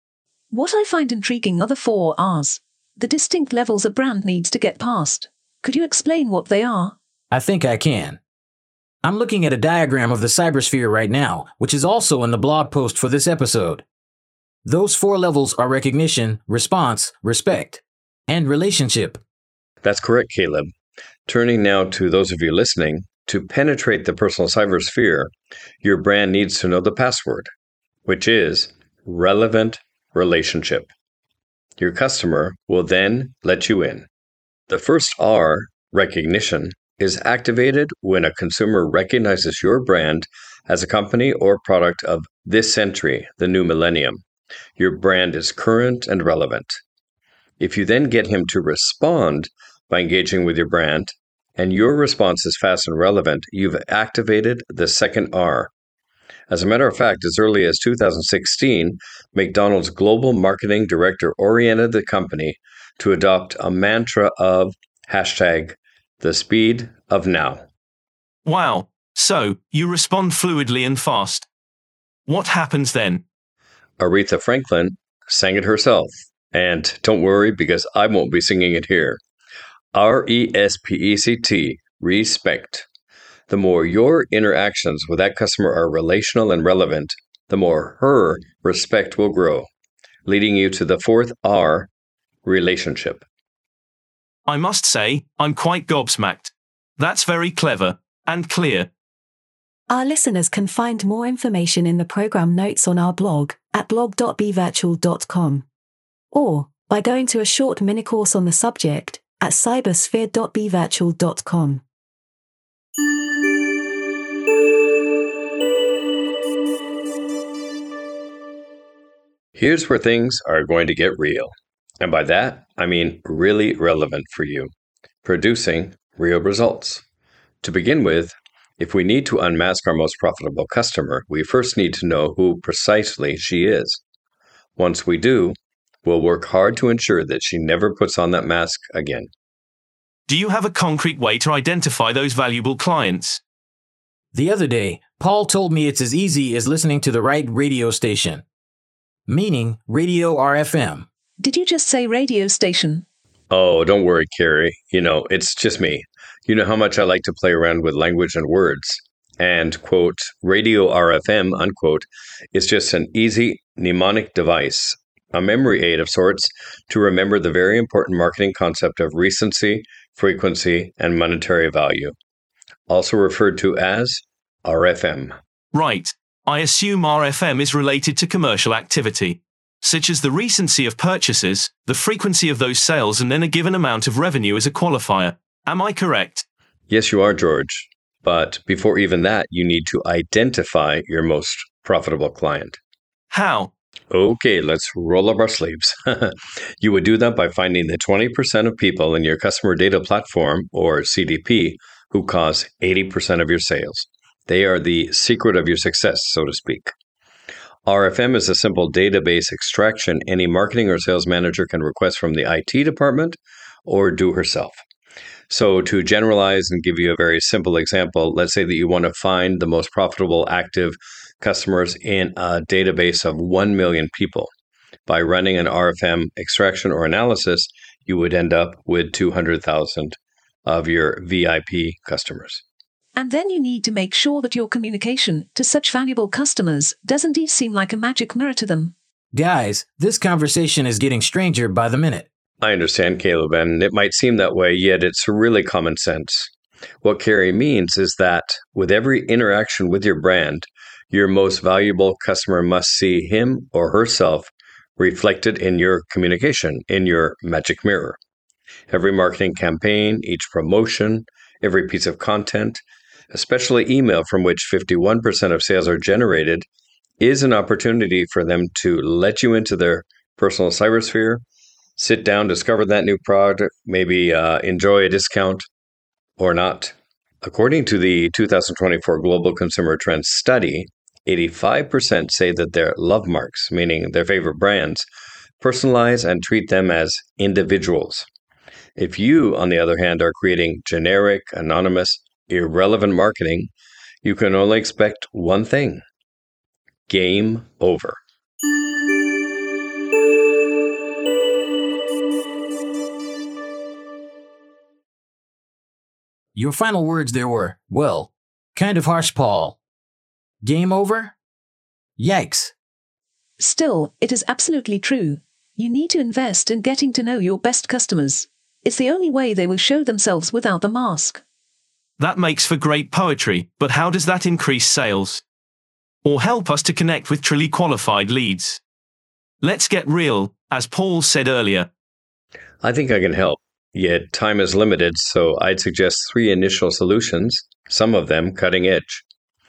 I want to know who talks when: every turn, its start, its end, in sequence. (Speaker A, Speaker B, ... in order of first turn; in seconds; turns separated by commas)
Speaker A: 0.5-7.0, Speaker B: 7.3-8.2, Speaker B: 9.0-13.8, Speaker B: 14.7-19.2, Speaker C: 19.8-20.7, Speaker C: 21.3-25.3, Speaker C: 25.8-27.5, Speaker C: 28.1-30.9, Speaker C: 31.8-34.1, Speaker C: 34.7-44.2, Speaker C: 44.8-46.8, Speaker C: 47.6-55.7, Speaker C: 56.5-67.6, Speaker D: 68.5-71.5, Speaker D: 72.3-73.2, Speaker C: 74.0-79.2, Speaker C: 79.9-82.9, Speaker C: 83.5-89.7, Speaker C: 90.3-91.9, Speaker C: 92.5-93.2, Speaker D: 94.5-98.9, Speaker E: 99.9-105.7, Speaker E: 106.3-111.8, Speaker C: 119.6-124.7, Speaker C: 125.2-127.0, Speaker C: 127.6-134.0, Speaker C: 134.8-139.3, Speaker D: 140.3-143.4, Speaker B: 144.3-148.4, Speaker B: 149.3-151.1, Speaker A: 151.4-153.1, Speaker C: 153.5-172.2, Speaker C: 172.9-175.4, Speaker D: 175.7-186.4, Speaker C: 186.9-192.8, Speaker D: 193.3-193.7, Speaker C: 194.1-206.9, Speaker C: 207.9-214.8, Speaker C: 215.5-224.5, Speaker C: 225.1-232.6, Speaker A: 233.2-238.9, Speaker B: 239.3-242.3, Speaker C: 242.6-246.5, Speaker C: 247.0-258.2, Speaker C: 258.9-266.7, Speaker C: 267.2-271.4, Speaker C: 272.0-275.7, Speaker C: 276.4-285.1, Speaker C: 285.6-288.3, Speaker C: 289.0-293.7, Speaker C: 294.2-296.0, Speaker C: 297.1-298.2, Speaker B: 306.6-309.8, Speaker B: 310.6-311.4, Speaker B: 312.2-312.7, Speaker A: 313.6-321.4, Speaker D: 322.2-325.4, Speaker D: 326.2-328.8, Speaker D: 329.6-331.9, Speaker C: 332.8-339.2